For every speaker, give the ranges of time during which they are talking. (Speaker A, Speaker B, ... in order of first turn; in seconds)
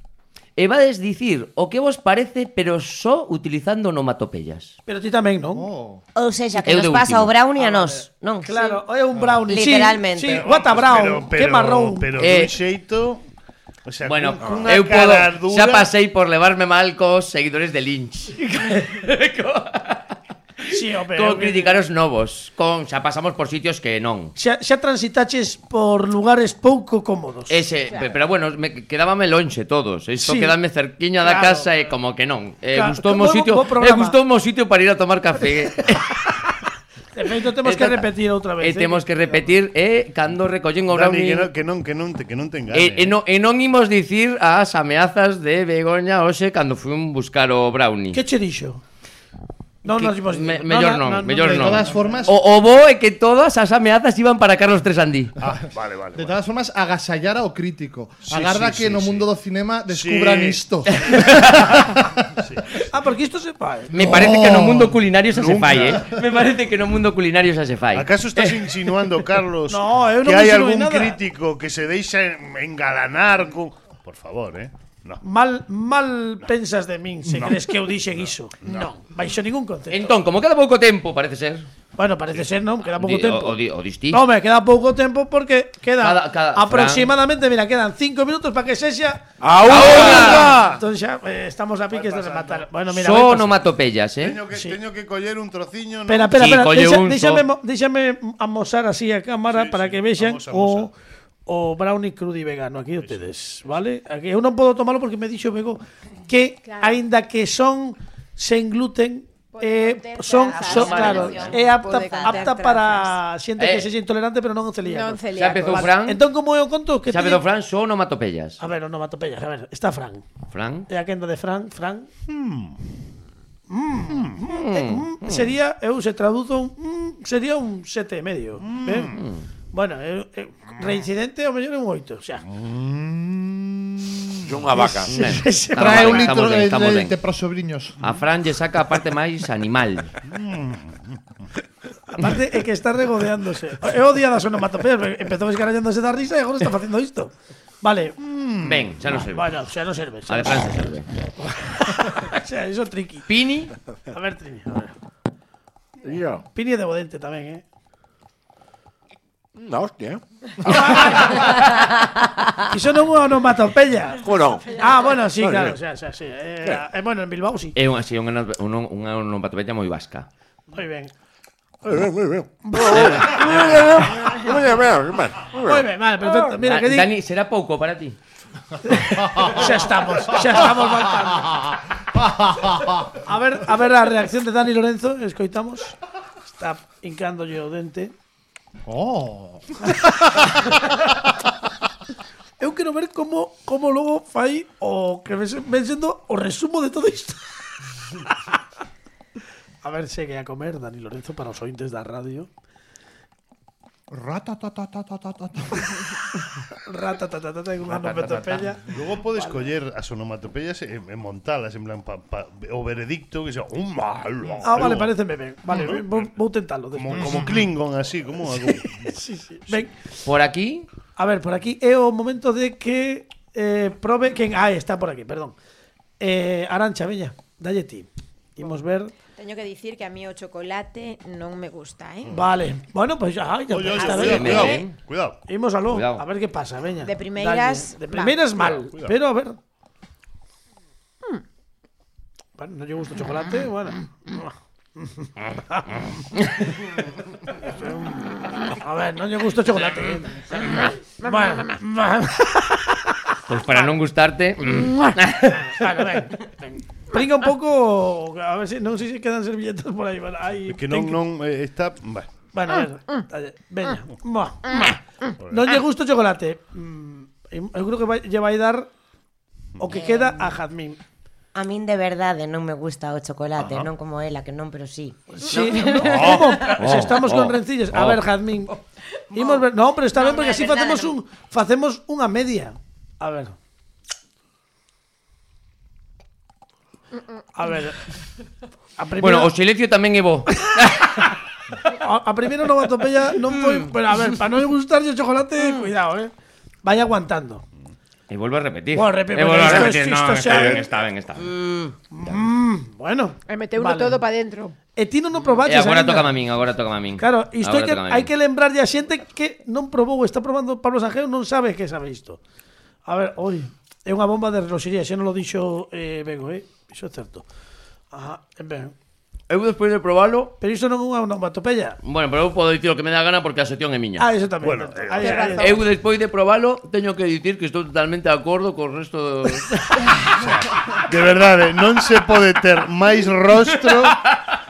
Speaker A: 0.6-4.7, 6.6-7.3, 12.2-12.6, 14.0-20.0, 20.7-24.3, 27.5-36.1, 37.6-38.1, 38.6-41.5, 42.7-48.2, 49.9-55.3, 60.9-61.5, 63.9-68.5, 79.9-81.7, 83.0-84.2, 86.0-87.1, 89.7-90.5, 92.9-94.4, 96.3-97.4, 110.6-111.5, 113.6-113.9, 115.3-116.2, 117.1-118.6, 120.5-120.8, 124.5-125.5, 129.1-129.4, 134.9-137.2, 138.0-140.1, 148.6-149.6, 150.3-151.1, 153.3-153.7, 167.8-170.3, 176.6-178.2, 220.2-220.9, 234.0-234.9, 235.9-236.2, 253.5-255.8, 276.2-278.2, 289.2-291.1, 293.5-293.9, 298.3-302.4, 305.6-308.3, 319.5-320.5, 322.0-324.3, 325.6-330.2
Speaker B: 4.9-5.7, 7.5-12.1, 18.4-18.9, 20.7-21.8, 24.4-27.6, 30.2-30.5, 31.2-31.7, 32.7-34.2, 37.1-39.5, 48.1-48.8, 49.8-51.9, 62.9-63.9, 69.7-71.2, 75.2-80.1, 82.0-83.6, 84.1-89.3, 89.8-93.6, 94.5-94.8, 96.1-100.9, 101.5-117.4, 118.6-120.2, 120.9-122.1, 123.7-129.2, 129.7-132.4, 134.7-136.3, 142.2-148.2, 149.1-150.7, 151.4-153.3, 154.1-154.9, 156.5-157.6, 160.7-161.4, 162.7-164.2, 164.7-167.8, 170.7-171.1, 172.6-174.6, 175.5-177.1, 178.8-181.5, 183.2-186.0, 186.5-188.1, 192.6-197.5, 199.8-202.5, 206.9-208.8, 214.6-217.5, 218.5-220.2, 221.2-225.5, 226.2-229.1, 232.3-234.8, 235.5-239.6, 242.6-246.7, 247.6-252.9, 255.6-261.2, 262.5-264.9, 265.5-268.9, 269.8-271.0, 275.3-278.8, 279.3-283.5, 287.5-288.1, 289.0-289.5, 291.8-296.3, 296.8-297.6, 298.9-300.9, 302.1-304.2, 304.9-306.4, 307.2-312.4, 313.0-317.4, 318.1-318.9, 320.6-322.0, 324.2-325.8
Speaker C: 5.5-6.0, 51.5-52.3, 56.1-62.1, 63.9-65.0, 135.8-138.1, 179.2-179.5, 180.8-183.1, 188.9-190.6, 204.1-206.3, 207.8-208.9
Speaker D: 6.1-8.8, 9.4-10.5, 111.9-112.4, 271.5-276.3
Speaker E: 10.3-13.2, 13.8-15.9, 40.9-43.1, 55.4-56.4, 58.2-59.3, 59.9-60.6, 61.1-61.9, 62.4-62.9, 65.3-66.2, 67.9-75.2, 77.3-78.9, 89.6-90.8, 91.9-92.7, 94.2-96.5, 99.5-100.9, 103.0-103.8, 122.3-122.8, 124.1-124.4, 128.6-129.2, 132.5-134.4, 140.3-141.3, 148.2-148.9, 208.9-215.2, 215.7-216.3, 216.9-219.2, 233.7-235.4, 238.6-239.1, 260.7-262.3, 265.4-265.8, 324.6-325.4, 330.3-334.3
Speaker F: 27.9-28.1, 106.6-107.0, 109.5-113.2, 114.8-115.9, 229.3-232.4, 233.9-234.6, 237.0-238.5, 251.2-251.7, 279.3-281.1, 303.5-304.8, 325.1-325.9
Speaker G: 89.4-90.5, 134.5-135.1, 156.0-156.4, 159.6-160.2, 164.2-164.7, 165.3-165.8, 171.8-175.9